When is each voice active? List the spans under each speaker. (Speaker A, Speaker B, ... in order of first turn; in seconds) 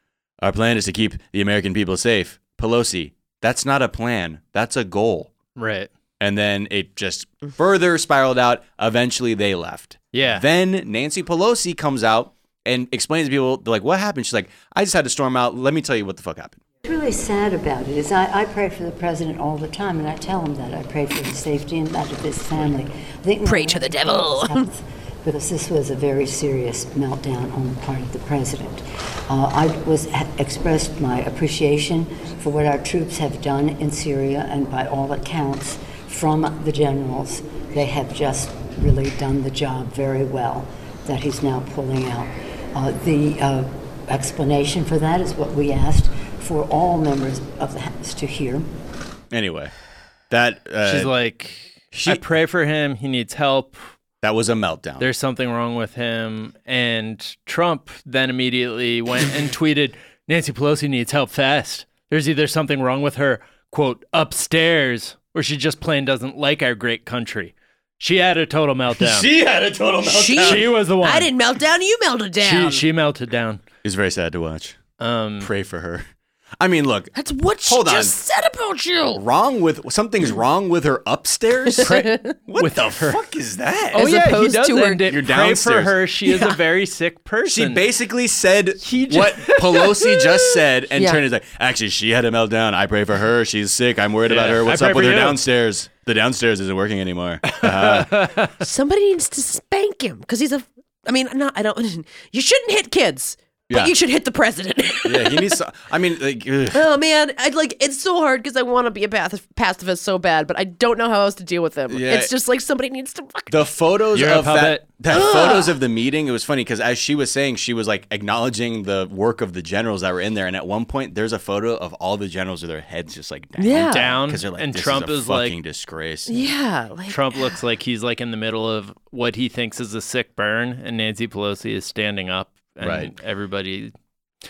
Speaker A: 0.4-5.3, 6.2-16.6, 49.3-49.7, 50.3-51.1, 51.9-52.2, 54.2-55.1, 69.0-70.7, 73.8-74.8, 75.4-76.0, 76.6-77.1, 77.7-78.2, 79.1-84.1, 85.0-86.0, 87.4-98.2, 105.0-106.8, 111.9-112.3, 113.5-126.4, 132.8-133.1
Speaker B: 5.5-5.9, 10.1-10.4, 50.8-53.9, 55.0-69.3, 70.4-71.3, 72.4-73.6, 75.0-75.5, 81.8-83.2, 83.9-87.8, 88.8-90.0, 94.2-95.4, 97.5-98.5, 114.1-114.8, 123.9-125.6, 127.1-133.9
Speaker C: 16.8-48.7
Speaker D: 23.4-24.7, 70.0-72.8, 77.1-79.2, 81.7-82.3, 83.9-85.1, 86.2-86.6, 90.0-91.2, 98.6-105.6, 106.7-113.7, 115.1-115.8, 123.6-124.1, 126.3-127.6